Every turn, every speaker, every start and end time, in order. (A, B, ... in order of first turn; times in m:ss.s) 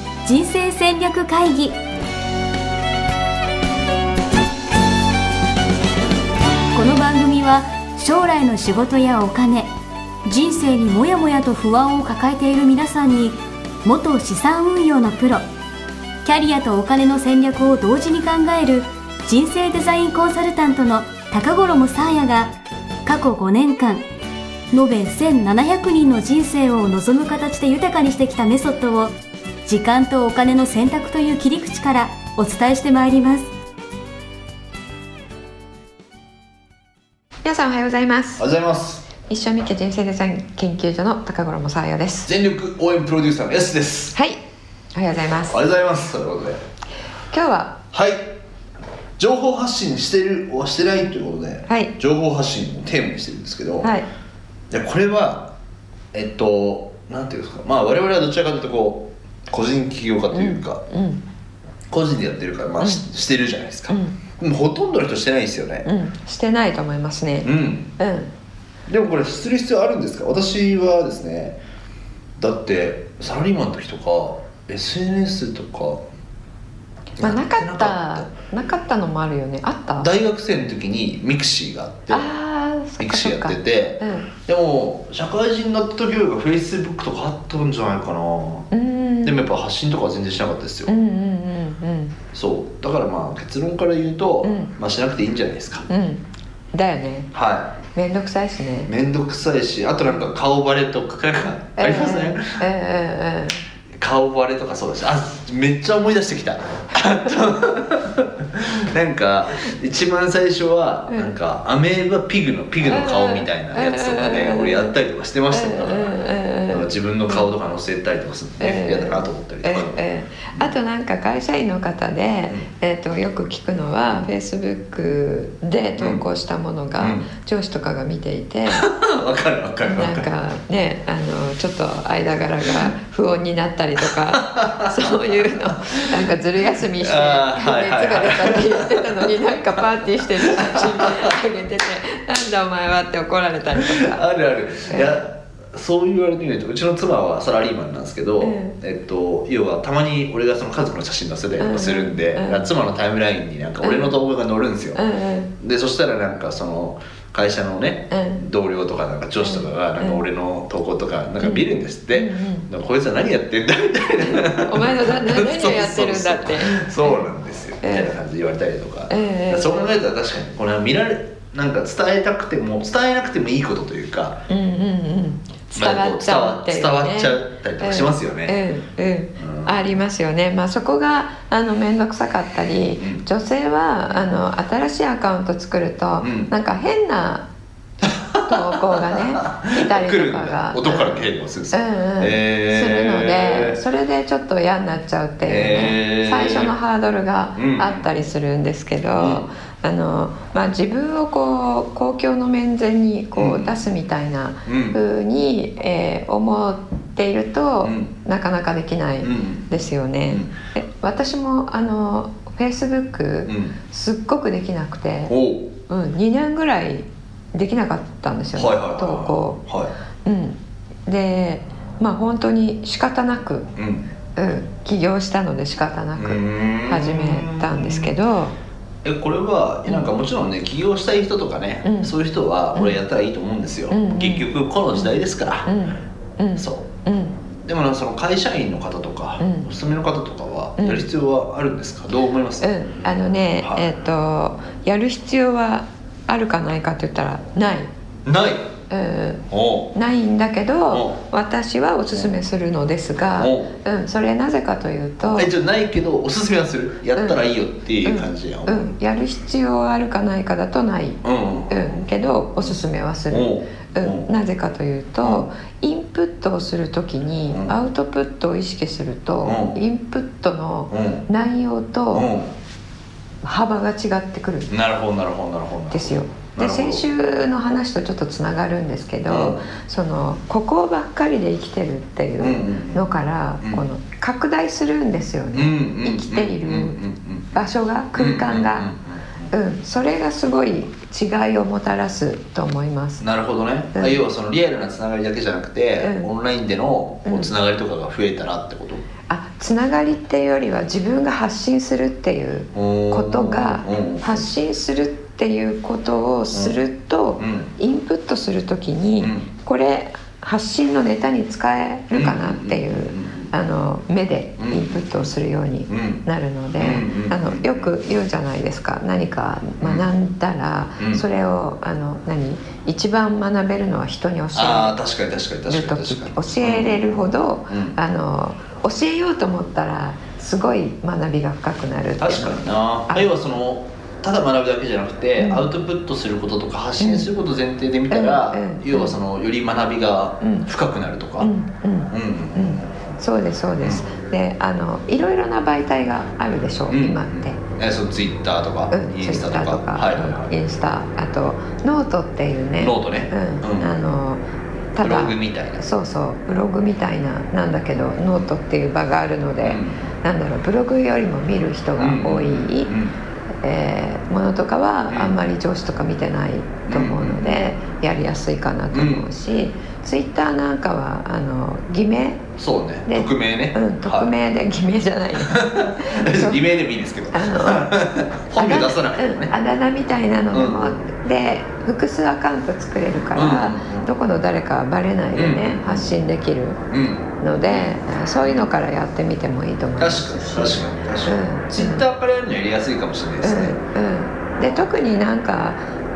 0:00.2-0:01.8 A
0:06.7-0:09.7 A
0:10.2-0:15.5 A
0:16.2-0:22.5 A
0:23.0-0:24.0 A
0:24.7-0:29.1 A
0:29.6-0:33.5 A
0:37.4-0:38.4 B
0:38.4-0:39.1 C
0:39.2-0:42.3 B
0:42.2-0:44.2 C
0:44.1-0:44.4 B
0:44.9-0:45.6 B
0:45.5-0:46.6 C
0:47.3-0:47.8 B
0:47.9-0:48.3 C
0:49.2-0:53.9 C
0:51.7-0:52.0 B
0:53.8-0:54.0 B
0:54.7-0:55.5 C
0:56.1-1:00.8 C
1:00.3-1:01.2 B
1:01.9-1:05.9 C
1:03.9-1:04.2 B
1:05.8-1:08.3 B
1:07.4-1:07.9 C
1:08.9-1:11.6 C
1:12.4-1:16.0 C
1:17.2-1:18.3 C
1:17.2-1:20.1 B
1:20.0-1:22.3 C
1:22.1-1:24.3 B
1:23.0-1:28.7 C
1:28.7-1:29.4 B
1:29.2-1:30.9 C
1:30.9-1:32.2 B
1:32.3-1:35.9 C
1:34.4-1:34.7 B
1:35.9-1:37.3 B
1:37.3-1:37.8 C
1:37.9-1:38.9 B
1:38.8-1:42.6 C
1:41.8-1:43.6 B
1:44.0-1:56.2 C
1:52.8-1:54.9 B
1:55.5-1:57.5 B
1:56.7-2:00.0 C
1:58.6-2:08.9 B
2:06.0-2:06.2 C
2:07.0-2:07.3 C
2:08.7-2:10.3 C
2:09.8-2:24.2 B
2:14.0-2:16.2 C
2:17.0-2:19.6 C
2:20.2-2:21.4 C
2:23.7-2:35.0 C
2:24.9-2:25.2 B
2:28.4-2:28.8 B
2:31.6-2:32.7 B
2:33.8-2:34.2 B
2:34.9-2:35.5 B
2:35.6-2:54.4 C
2:38.1-2:38.4 B
2:39.4-2:40.2 B
2:41.4-2:42.7 B
2:44.2-2:47.3 B
2:47.8-2:48.2 B
2:49.1-2:49.9 B
2:54.5-3:07.5 B
2:55.7-2:58.6 C
2:59.4-2:59.9 C
3:06.2-3:06.5 C
3:08.0-3:13.8 C
3:08.4-3:35.3 B
3:15.4-3:16.7 C
3:17.6-3:18.1 C
3:19.1-3:19.5 C
3:23.3-3:23.9 C
3:24.6-3:25.0 C
3:27.8-3:28.1 C
3:29.2-3:29.8 C
3:33.5-3:33.8 C
3:35.3-3:35.7 C
3:35.9-3:39.6 B
3:38.5-3:39.9 C
3:40.2-3:43.7 B
3:43.8-3:44.1 C
3:44.4-3:48.5 B
3:46.2-3:48.1 C
3:49.0-3:55.8 C
3:51.8-3:52.1 B
3:53.9-3:57.4 B
3:56.6-3:56.9 C
3:57.6-4:02.7 C
3:59.4-3:59.7 B
4:00.8-4:01.1 B
4:02.6-4:07.9 B
4:03.6-4:03.9 C
4:08.2-4:08.7 C
4:08.9-4:15.5 B
4:09.5-4:09.9 C
4:10.9-4:11.2 C
4:13.3-4:13.7 C
4:15.2-4:19.0 C
4:17.1-4:17.4 B
4:18.0-4:32.3 B
4:21.2-4:22.0 C
4:23.3-4:24.3 C
4:25.2-4:25.5 C
4:27.5-4:27.8 C
4:29.4-4:29.8 C
4:30.9-4:31.2 C
4:32.1-4:32.5 C
4:33.4-4:34.7 B
4:34.7-4:37.0 C
4:35.9-4:47.0 B
4:39.3-4:39.7 C
4:42.4-4:43.8 C
4:45.5-4:47.6 C
4:47.5-4:48.9 B
4:48.1-4:49.4 C
4:49.5-4:53.3 B
4:53.2-4:59.0 C
4:53.9-4:54.2 B
4:56.0-4:56.3 B
4:57.2-4:57.5 B
4:59.3-5:25.0 B
5:02.7-5:04.5 C
5:06.5-5:06.8 C
5:07.4-5:07.7 C
5:09.2-5:09.5 C
5:12.1-5:13.5 C
5:14.6-5:15.3 C
5:15.9-5:16.2 C
5:16.8-5:17.7 C
5:19.8-5:20.0 C
5:21.0-5:21.2 C
5:24.5-5:28.0 C
5:25.7-5:33.3 B
5:32.2-5:41.5 C
5:35.4-5:35.7 B
5:37.0-5:37.3 B
5:38.1-5:39.2 B
5:40.4-5:40.7 B
5:41.4-5:47.6 B
5:42.1-5:42.9 C
5:43.8-5:44.0 C
5:46.9-5:50.5 C
5:48.9-5:54.4 B
5:52.8-5:53.9 C
5:54.9-6:02.9 B
5:55.0-5:55.8 C
5:59.6-6:00.0 C
6:02.0-6:03.2 C
6:03.6-6:12.5 B
6:05.1-6:05.4 C
6:06.9-6:07.7 C
6:08.9-6:09.2 C
6:12.6-6:14.3 C
6:13.0-6:16.6 B
6:15.4-6:19.5 C
6:17.3-6:26.8 B
6:20.5-6:21.0 C
6:23.3-6:24.1 C
6:25.3-6:26.1 C
6:26.9-6:28.7 C
6:27.4-6:32.0 B
6:30.0-6:33.8 C
6:33.4-6:35.8 B